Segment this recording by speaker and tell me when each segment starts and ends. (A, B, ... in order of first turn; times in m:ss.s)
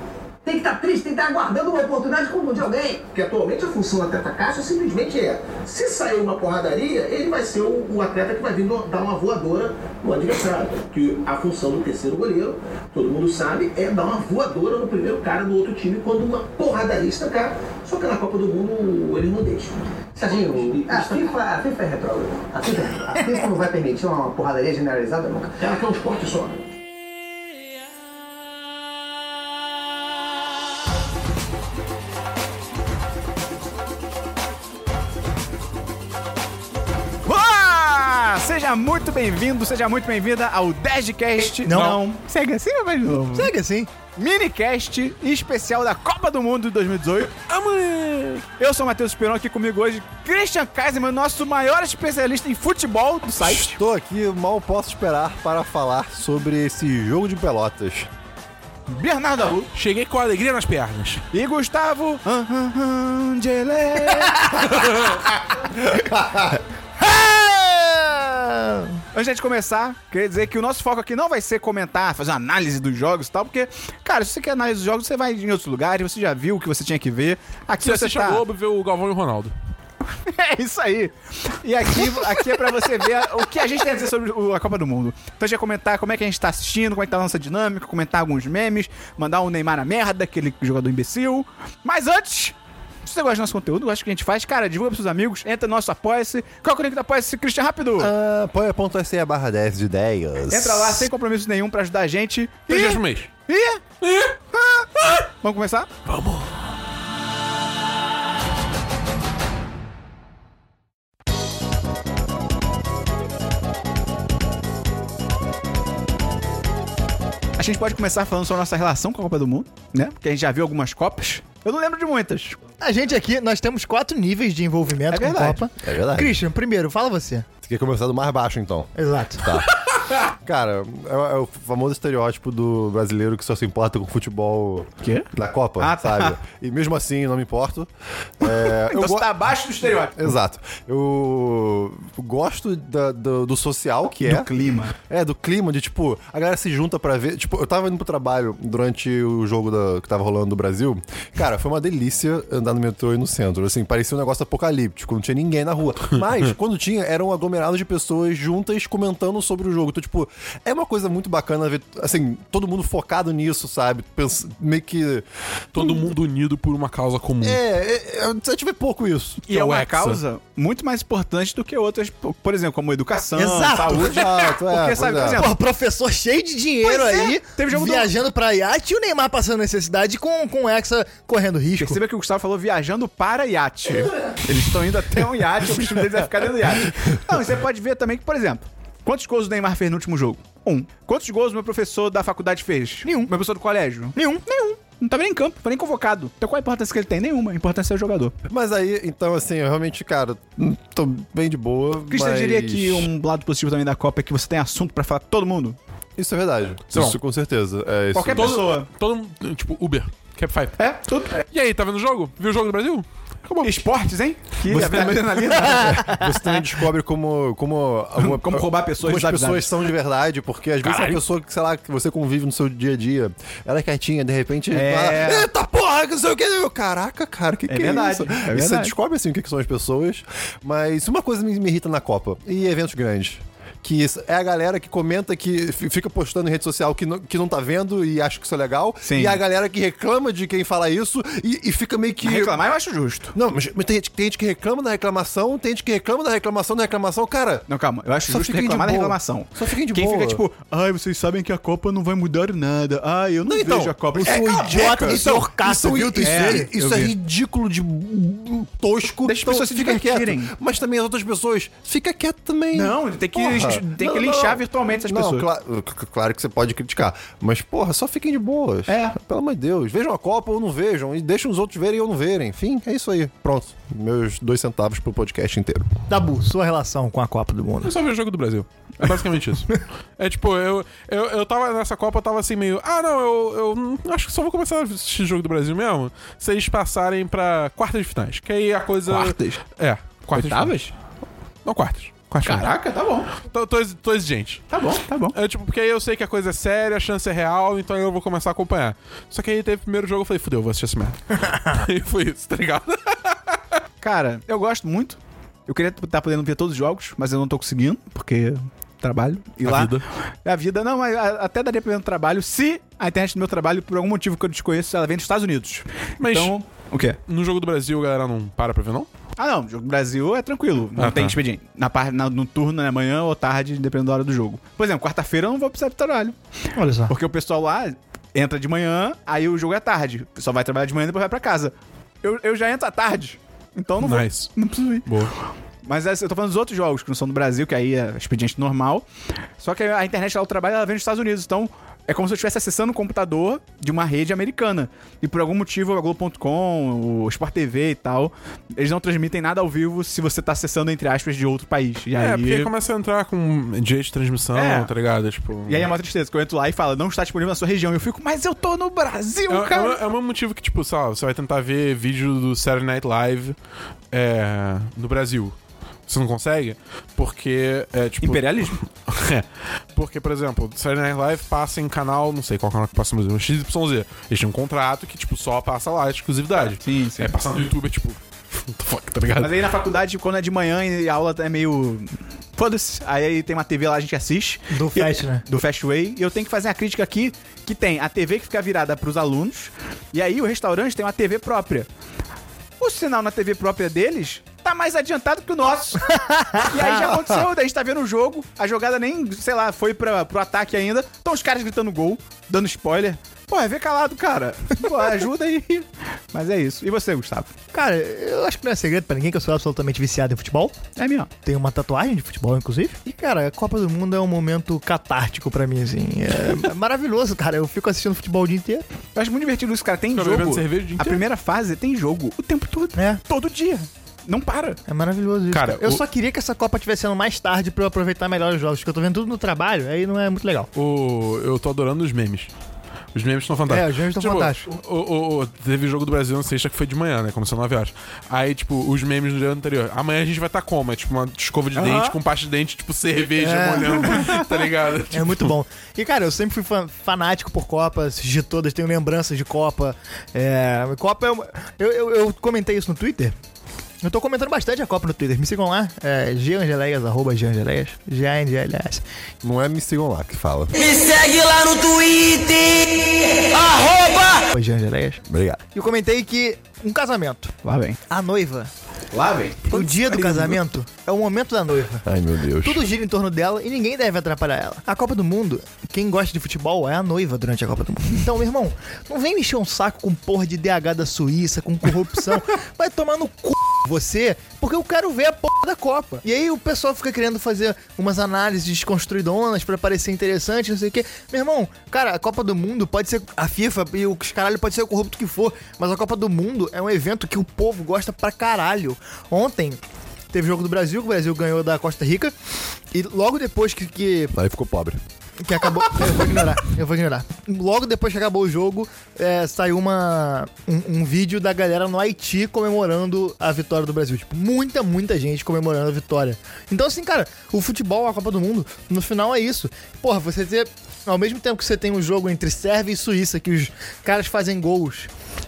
0:00.4-0:03.0 A
0:03.1-0:21.4 B
0:20.2-0:25.6 A
0:25.6-0:26.6 B
0:37.2-0:43.5 C
0:41.6-0:42.0 D
0:43.3-0:43.9 D
0:44.1-0:47.3 C
0:47.5-0:48.5 E
0:48.6-0:53.8 C
0:53.4-0:58.1 F
0:58.9-0:59.7 C
0:59.7-1:01.2 E
1:01.3-1:05.1 C
1:04.6-1:05.2 E
1:07.0-1:08.9 D
1:09.1-1:18.4 C
1:17.8-1:19.5 E
1:20.3-1:32.5 C
1:23.0-1:23.4 D
1:33.0-1:38.1 C
1:38.0-1:41.1 F
1:40.5-1:43.8 C
1:42.7-1:43.3 E
1:44.0-1:44.4 E
1:44.5-1:45.9 C
1:46.1-1:46.5 E
1:57.6-2:02.6 C
2:02.8-2:07.4 D
2:05.1-2:05.6 C
2:05.8-2:06.4 F
2:07.6-2:19.3 F
2:09.0-2:09.5 D
2:15.8-2:16.4 C
2:18.4-2:20.3 C
2:20.1-2:24.5 F
2:24.2-2:24.9 C
2:25.0-2:46.1 F
2:45.7-2:47.6 E
2:47.4-2:49.4 F
2:49.5-2:55.5 C
2:49.5-2:50.2 E
2:53.4-2:54.1 D
2:53.6-2:55.4 F
2:55.3-3:02.0 D
2:56.8-2:58.1 C
3:01.8-3:18.3 C
3:13.0-3:13.3 D
3:14.1-3:14.4 D
3:18.4-3:23.1 F
3:22.1-3:25.8 C
3:26.2-3:28.5 F
3:28.1-3:28.9 C
3:28.3-3:30.8 E
3:30.8-3:31.4 C
3:31.5-3:33.7 E
3:33.6-3:36.1 C
3:34.7-4:02.6 F
3:38.2-3:39.7 C
3:40.8-3:41.2 E
3:44.7-3:45.5 C
3:47.7-3:48.9 C
3:59.0-3:59.4 C
4:02.2-4:03.3 C
4:03.3-4:07.6 F
4:07.7-4:15.5 C
4:08.3-4:10.4 F
4:13.5-4:35.9 F
4:14.2-4:16.7 D
4:16.2-4:17.1 C
4:19.2-4:20.5 C
4:22.7-4:25.5 C
4:28.9-4:29.2 C
4:36.1-4:37.9 D
4:37.8-4:50.9 E
4:49.0-4:49.6 C
4:50.3-4:50.9 C
4:51.6-4:52.8 E
4:52.4-4:53.3 C
4:53.3-4:54.6 E
4:54.7-4:55.4 C
4:55.3-5:03.6 E
5:04.0-5:17.2 C
5:09.6-5:10.0 E
5:16.2-5:16.5 E
5:17.3-5:19.1 E
5:19.4-5:26.3 C
5:21.0-5:21.4 E
5:26.7-5:27.1 D
5:27.1-5:35.1 C
5:34.0-5:34.5 E
5:35.0-5:35.3 E
5:35.8-5:39.0 C
5:39.6-5:52.7 C
5:52.2-5:55.9 E
5:54.5-5:54.9 C
5:55.7-6:00.0 C
5:59.5-6:03.5 E
6:04.1-6:05.5 E
6:06.1-6:19.5 E
6:08.2-6:08.8 C
6:16.8-6:17.3 C
6:19.4-6:31.9 C
6:24.7-6:25.4 D
6:32.8-6:47.5 C
6:36.4-6:36.7 D
6:36.8-6:37.5 F
6:47.7-6:50.7 D
6:51.0-6:51.3 C
6:51.4-6:58.8 D
6:59.2-7:04.8 C
7:00.1-7:01.2 E
7:03.0-7:03.2 D
7:04.9-7:10.7 D
7:05.5-7:06.0 E
7:10.7-7:12.5 E
7:13.1-7:25.5 E
7:13.7-7:14.6 D
7:21.7-7:22.2 C
7:23.4-7:24.2 D
7:24.0-7:24.5 C
7:25.1-7:33.3 D
7:34.0-7:39.0 D
7:39.4-7:40.8 F
7:40.7-7:44.4 G
7:44.5-7:45.2 D
7:45.3-7:45.6 F
7:45.7-7:47.5 D
7:47.6-7:48.0 C
7:48.1-7:48.7 D
7:49.1-7:50.6 C
7:49.7-7:52.0 D
7:52.0-7:52.8 F
7:52.6-8:19.8 D
8:20.3-8:22.3 D
8:22.9-8:24.3 D
8:24.3-8:25.0 F
8:25.4-8:45.1 D